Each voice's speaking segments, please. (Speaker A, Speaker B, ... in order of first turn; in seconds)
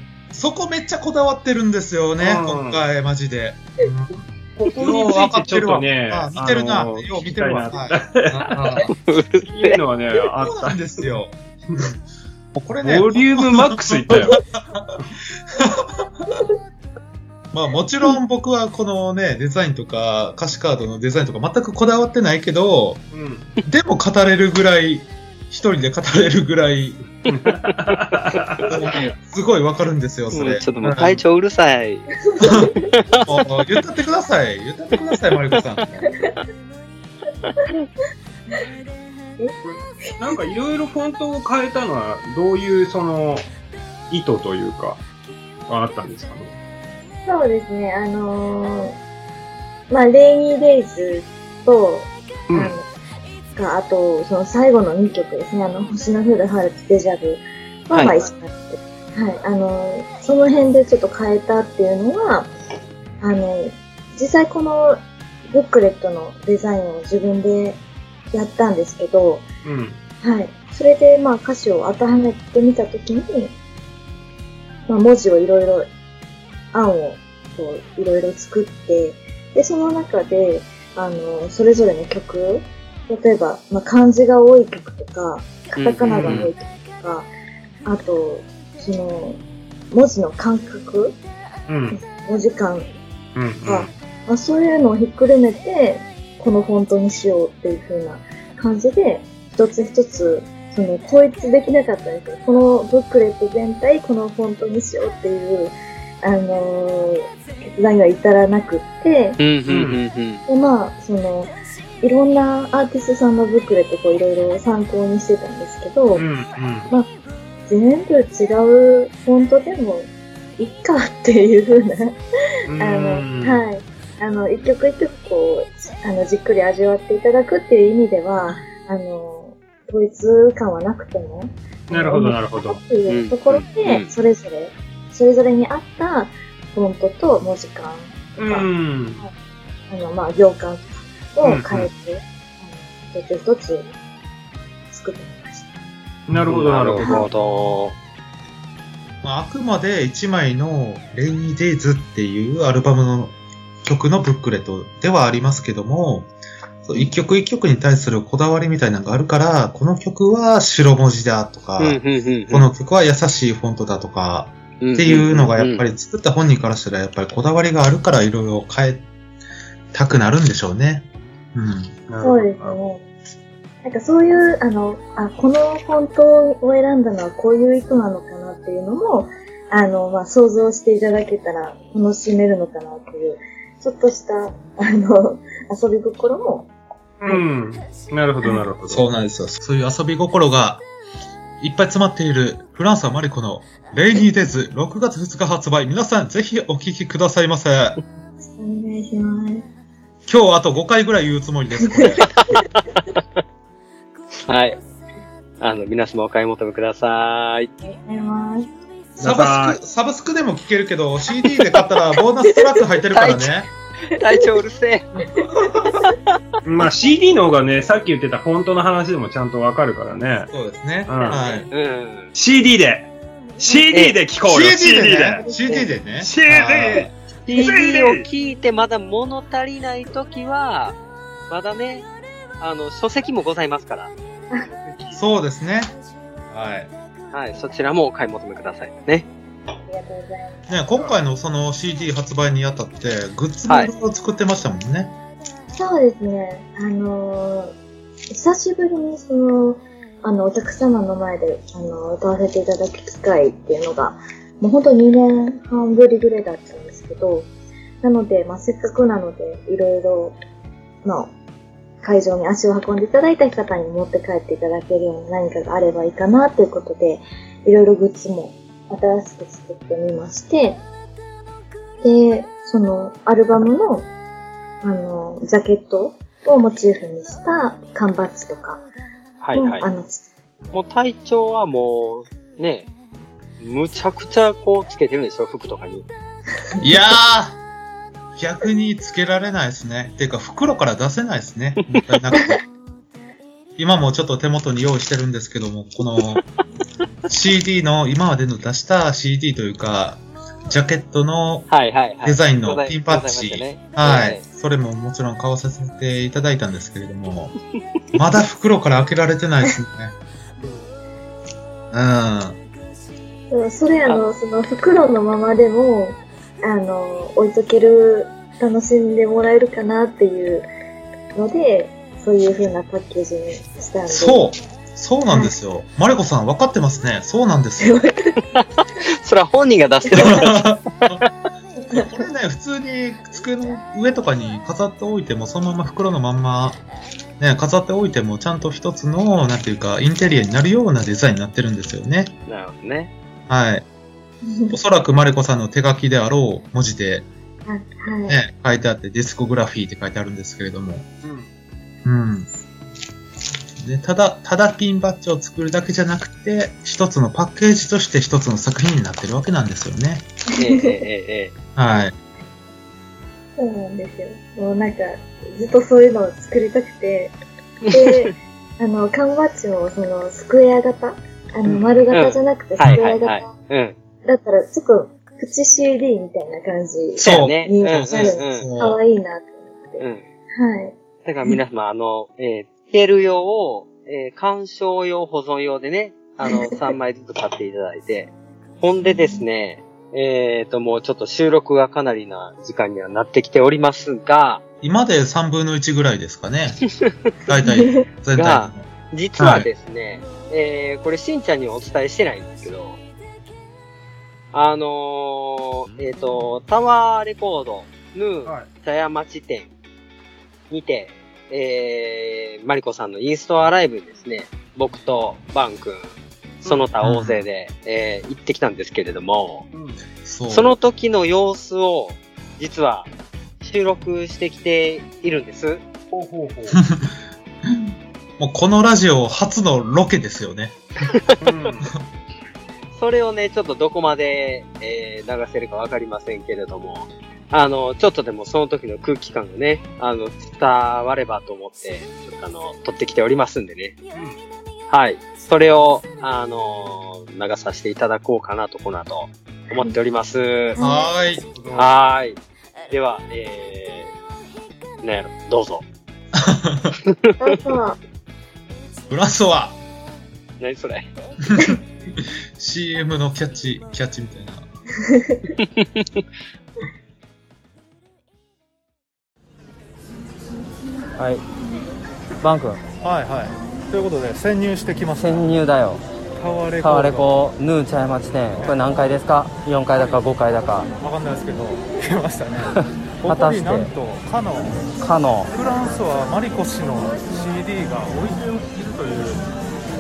Speaker A: 0.3-8.9, 10.4-11.9, 12.6-14.9, 15.6-16.4, 17.5-23.1, 23.7-27.0, 28.7-31.2, 33.3-36.1, 149.2-156.3, 156.8-169.1, 169.9-172.0, 188.9-190.9, 191.6-198.0, 200.3-202.3, 209.2-213.7, 220.5-221.7, 224.4-227.1, 235.1-235.9, 236.5-236.9, 240.7-245.2, 286.8-287.6, 288.4-292.6, 293.8-296.4, 297.3-301.7, 302.2-307.5, 308.1-310.1, 311.9-312.6, 324.1-328.0, 330.1-331.2, 331.9-336.8, 337.4-342.3, 343.5-343.9, 344.7-347.3, 348.3-351.1, 352.1-352.5, 353.8-360.3, 361.8-362.1, 377.2-379.0, 394.8-396.8, 397.5-398.9, 399.4-399.7, 417.0-417.4, 420.2-420.8, 426.7-427.1, 428.4-430.8, 450.8-451.4, 456.3-457.0, 459.1-459.8, 461.5-464.7
Speaker B: 2.2-2.8, 4.6-8.9, 9.4-11.2, 12.8-14.4, 23.1-23.5, 27.3-28.6, 39.6-43.5, 44.1-45.0, 45.7-46.5, 52.5-52.8, 69.6-70.0, 86.0-86.5, 91.7-92.0, 93.3-93.9, 109.7-110.0, 116.1-116.9, 122.7-123.6, 131.9-132.8, 138.4-139.2, 141.4-141.9, 146.3-147.3, 172.1-172.8, 187.2-189.1, 209.2-209.8, 216.7-220.5, 221.1-221.4, 222.3-225.4, 226.2-228.2, 351.2-351.5, 419.7-420.0, 426.1-426.8, 431.4-431.8, 451.5-451.9
Speaker C: 8.9-9.8, 28.3-28.6, 30.3-32.1, 32.9-33.3, 57.9-58.3, 85.8-86.5, 109.4-110.4, 133.1-134.1, 146.4-148.0, 161.8-162.6, 164.8-165.9, 204.5-204.8, 205.6-207.7, 213.1-213.6, 214.1-215.1, 221.2-222.3, 223.9-224.2, 227.5-231.0, 231.5-232.1, 232.6-234.1, 237.3-239.3, 279.4-279.9, 280.7-282.9, 283.6-286.1, 301.7-304.4, 328.6-331.2, 342.5-343.1, 360.6-361.5, 367.9-368.3, 372.1-374.0, 377.2-378.7, 380.0-380.2, 381.2-394.6, 398.3-403.0, 404.5-409.7, 410.7-416.1, 416.6-419.6, 420.5-423.1, 423.6-425.8, 432.9-443.9, 444.9-450.8, 451.8-452.4, 452.9-454.1, 455.0-455.8, 460.6-461.1, 465.8-466.2
Speaker D: 32.3-32.8, 47.3-49.0, 49.9-52.9, 53.5-62.5, 63.2-67.8, 68.3-69.5, 70.2-73.6, 74.9-75.9, 76.7-87.3, 87.8-91.2, 92.1-92.9, 93.6-109.4, 110.5-116.3, 117.7-122.2, 122.8-139.3, 139.9-143.9, 144.9-145.7, 147.0-147.3, 172.2-173.0, 173.8-186.7, 198.4-199.7, 201.8-202.6, 207.8-208.7, 215.4-215.9, 225.4-225.9, 239.9-240.7, 245.7-247.7, 248.3-257.5, 258.0-260.4, 261.0-261.3, 262.0-270.8, 272.0-274.1, 274.8-278.9, 279.5-280.3, 313.5-320.7, 321.4-324.4, 327.8-328.3, 330.1-330.5, 332.0-332.2, 344.4-344.8, 347.7-348.4, 360.6-361.0, 363.6-367.3, 367.9-373.5, 374.2-380.9, 389.0-389.4, 397.6-398.0, 450.8-451.1, 457.4-458.0, 465.1-465.4
Speaker E: 471.2-471.4, 472.4-472.8, 475.2-476.0, 476.8-480.9, 482.8-483.9, 485.0-485.5
Speaker F: 473.0-475.5, 476.4-477.5, 478.3-479.2, 479.9-480.3, 480.9-484.9, 485.5-489.5